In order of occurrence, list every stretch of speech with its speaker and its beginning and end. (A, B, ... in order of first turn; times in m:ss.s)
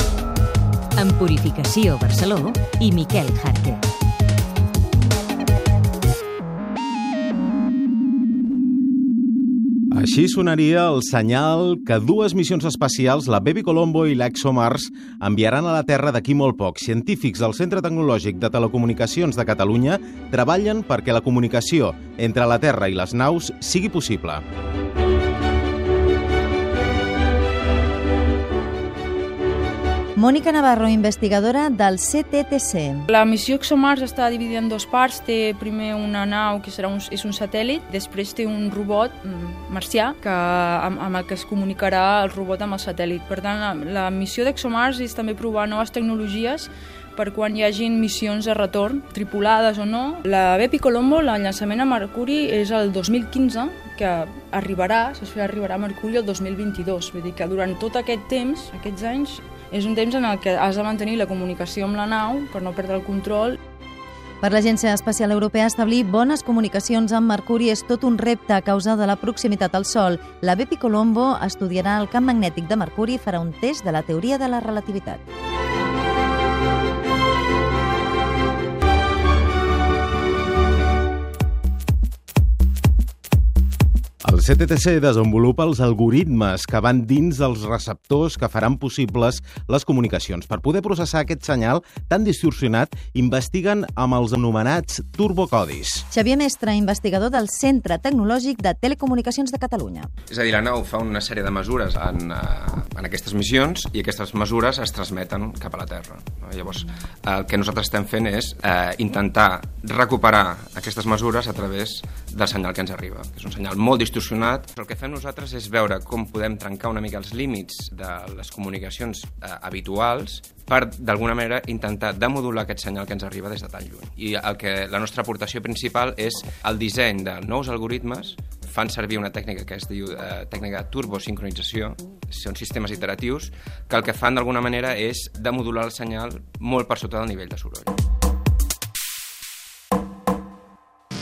0:01.0-0:03.8 A
0:09.9-0:24.4 B
0:30.2-0:33.1 C
0:33.1-1:03.6 D
1:04.4-1:15.2 C
1:24.2-1:36.1 B
1:36.1-1:40.1 C
1:40.3-2:17.9 E